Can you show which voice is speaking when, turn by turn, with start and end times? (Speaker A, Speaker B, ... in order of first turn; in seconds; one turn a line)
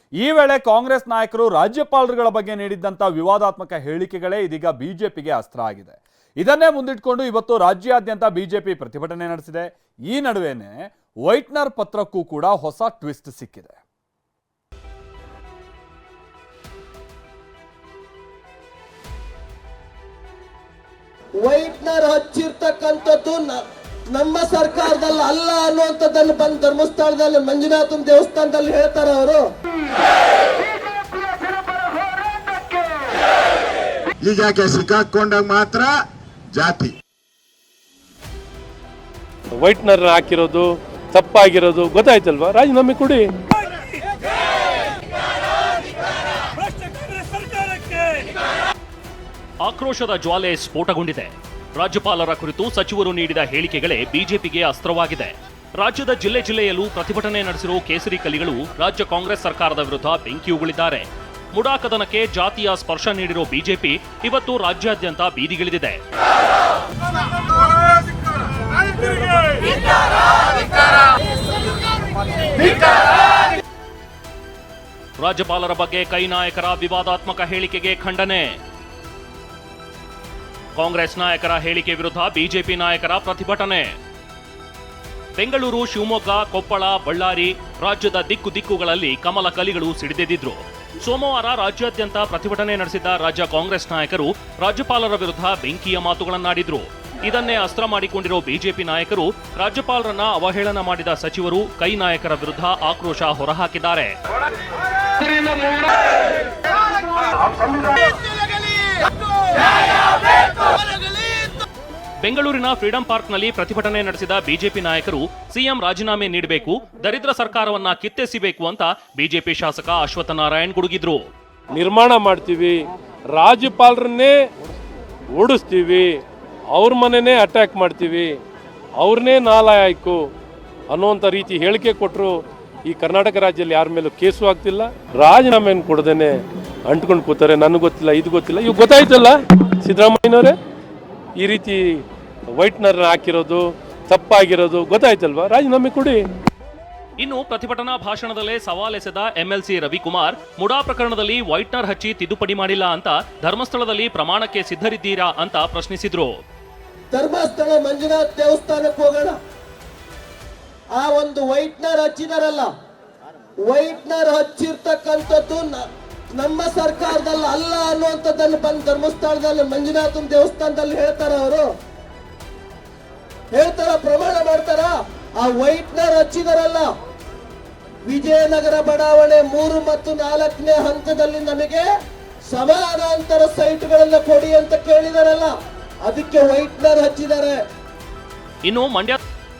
Speaker A: 0.2-13.8
Speaker B: 21.4-23.6
Speaker B: 24.1-29.4
Speaker C: 34.2-35.9
Speaker C: 36.5-37.0
Speaker D: 39.6-43.2
Speaker D: 46.6-48.3
Speaker E: 49.6-66.0
Speaker E: 75.2-78.6
Speaker E: 80.8-84.0
Speaker E: 85.4-104.2
Speaker E: 112.2-121.2
Speaker D: 121.7-124.3
Speaker D: 125.3-126.2
Speaker D: 126.7-128.4
Speaker D: 129.0-130.3
Speaker D: 130.9-140.6
Speaker D: 141.4-142.0
Speaker D: 142.6-146.2
Speaker E: 147.2-156.3
Speaker B: 157.1-159.4
Speaker B: 161.0-162.7
Speaker B: 163.7-171.7
Speaker B: 173.5-176.9
Speaker B: 178.1-181.9
Speaker B: 182.5-185.5
Speaker B: 186.1-187.6
Speaker E: 188.7-189.2